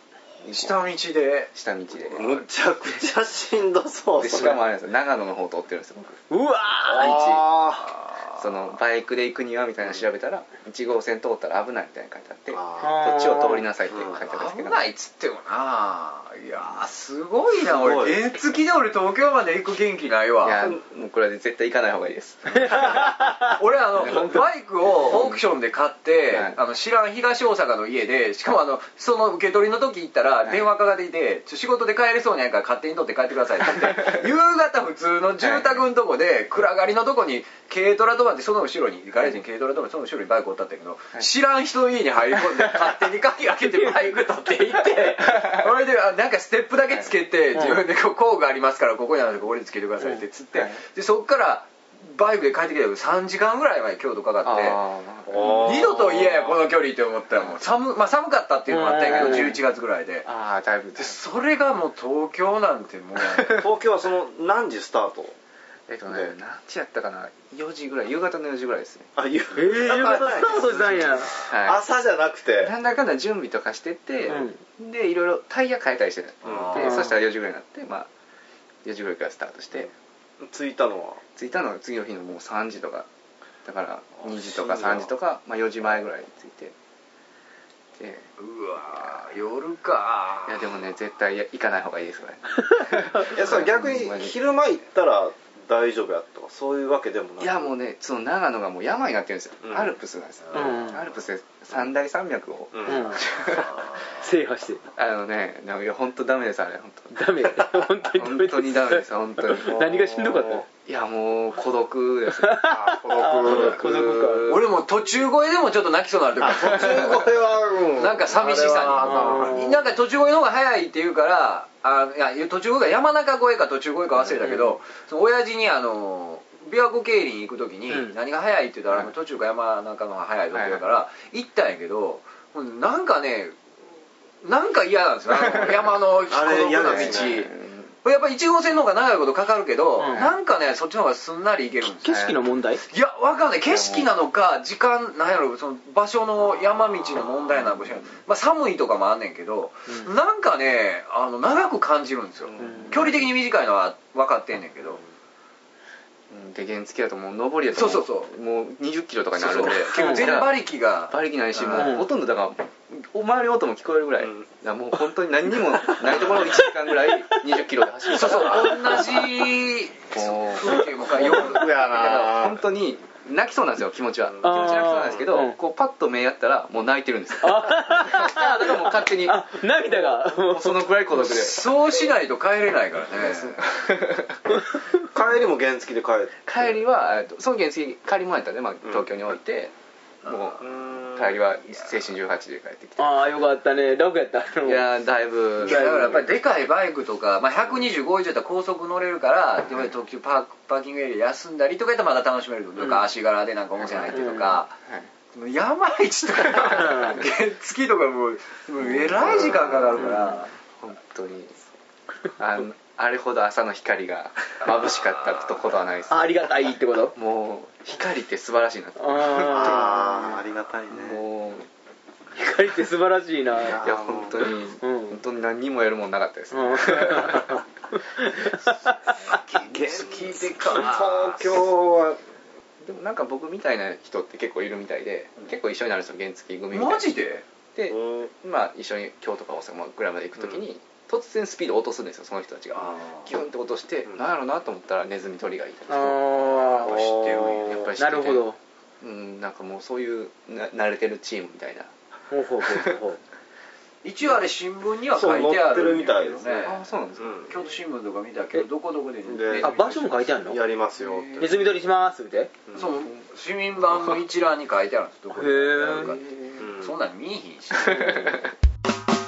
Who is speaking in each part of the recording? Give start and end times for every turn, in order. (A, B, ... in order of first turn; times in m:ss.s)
0:00.4-0:01.5 A
0:00.4-0:00.8 B
0:01.5-0:02.4 B
0:02.1-0:04.6 C
0:04.2-0:06.2 B
0:06.3-0:07.4 D
0:06.9-0:08.0 C
0:07.0-0:07.3 B
0:08.4-0:14.8 B
0:12.5-0:13.2 C
0:12.8-0:13.7 D
0:13.9-0:14.2 C
0:14.1-0:20.7 A
0:17.6-0:18.2 C
0:20.4-0:23.5 B
0:22.7-0:54.8 A
0:23.0-0:23.3 D
0:24.0-0:24.4 B
0:25.1-0:25.4 B
0:26.3-0:26.6 B
0:35.4-0:35.7 B
0:43.8-0:44.1 D
0:45.3-0:45.6 B
0:50.6-0:50.8 B
0:54.4-0:55.9 B
0:55.3-0:56.4 C
0:55.4-1:00.3 A
0:58.7-0:59.6 D
1:00.2-1:01.2 B
1:01.0-1:03.6 A
1:03.3-1:03.6 B
1:03.6-1:05.4 C
1:05.9-1:09.1 B
1:06.1-1:06.4 C
1:09.2-1:12.7 C
1:09.6-1:11.3 D
1:11.5-1:11.8 B
1:12.6-1:18.1 B
1:14.3-1:14.6 D
1:16.4-1:17.1 A
1:16.5-1:16.8 C
1:16.8-1:17.0 D
1:18.8-1:19.9 B
1:20.4-1:21.2 C
1:21.4-1:23.1 B
1:23.6-1:26.7 B
1:24.2-1:25.1 C
1:28.0-1:28.2 B
1:28.4-1:30.7 A
1:30.5-1:34.4 B
1:33.2-1:37.7 C
1:37.4-1:43.8 B
1:39.6-1:40.0 C
1:40.5-1:41.0 D
1:42.7-1:43.2 C
1:42.9-1:43.2 D
1:44.2-1:44.8 D
1:44.9-1:49.8 B
1:47.1-1:50.6 D
1:49.6-1:50.7 C
1:50.8-1:54.6 B
1:52.4-1:54.6 D
1:52.6-1:54.1 C
1:54.5-1:57.3 A
1:56.4-1:59.8 C
1:56.7-1:57.1 B
1:57.9-2:13.6 A
1:59.0-1:59.7 D
2:10.5-2:10.8 B
2:14.4-2:17.5 A
2:15.3-2:15.8 B
2:16.3-2:17.5 C
2:16.7-2:17.9 B
2:18.0-2:22.2 A
2:20.0-2:20.3 D
2:22.0-2:22.8 D
2:22.0-2:22.4 B
2:22.9-2:35.0 A
2:23.7-2:24.1 B
2:32.6-2:32.9 B
2:32.6-2:32.9 D
2:36.3-2:40.6 B
2:37.7-2:38.3 A
2:39.3-2:41.9 A
2:39.9-2:40.3 D
2:41.1-2:49.3 B
2:41.7-2:42.1 D
2:46.0-2:46.5 C
2:48.1-2:52.3 A
2:50.1-2:50.8 B
2:51.1-2:52.6 C
2:51.6-3:01.8 B
2:54.4-2:55.6 D
2:57.4-3:00.9 D
3:01.1-3:03.6 A
3:03.1-3:04.4 B
3:05.1-3:06.4 C
3:06.5-3:09.7 B
3:10.2-3:13.3 B
3:10.6-3:11.4 C
3:13.0-3:14.9 D
3:14.6-3:16.3 B
3:15.6-3:24.8 A
3:15.6-3:16.3 D
3:23.9-3:25.1 B
3:24.1-3:24.6 D
3:25.3-3:30.5 A
3:26.7-3:27.2 D
3:28.8-3:31.6 B
3:32.4-3:36.6 B
3:36.1-3:37.2 D
3:37.2-3:40.0 B
3:39.0-3:40.4 D
3:39.4-3:41.2 C
3:40.9-3:41.7 B
3:42.4-3:43.9 D
3:43.6-3:44.5 C
3:43.8-3:47.6 B
3:44.8-3:45.2 D
3:46.5-3:47.6 D
3:48.1-3:49.0 D
3:49.3-3:51.6 A
3:49.6-3:52.2 C
3:52.8-3:57.1 B
3:56.7-3:57.4 A
3:57.8-4:06.3 B
3:57.9-3:58.3 C
4:02.8-4:03.3 A
4:05.9-4:07.0 D
4:06.6-4:07.9 A
4:06.8-4:07.9 C
4:07.6-4:08.5 B
4:08.0-4:08.6 D
4:09.0-4:11.9 B
4:12.3-4:13.2 D
4:14.0-4:16.9 A
4:15.1-4:17.5 C
4:16.6-4:17.5 B
4:17.5-4:20.2 A
4:19.3-4:21.8 C
4:19.6-4:20.6 D
4:21.0-4:21.7 B
4:21.4-4:22.5 D
4:22.7-4:28.5 A
4:25.4-4:26.1 D
4:26.0-4:26.7 B
4:26.6-4:26.9 C
4:27.8-4:28.5 B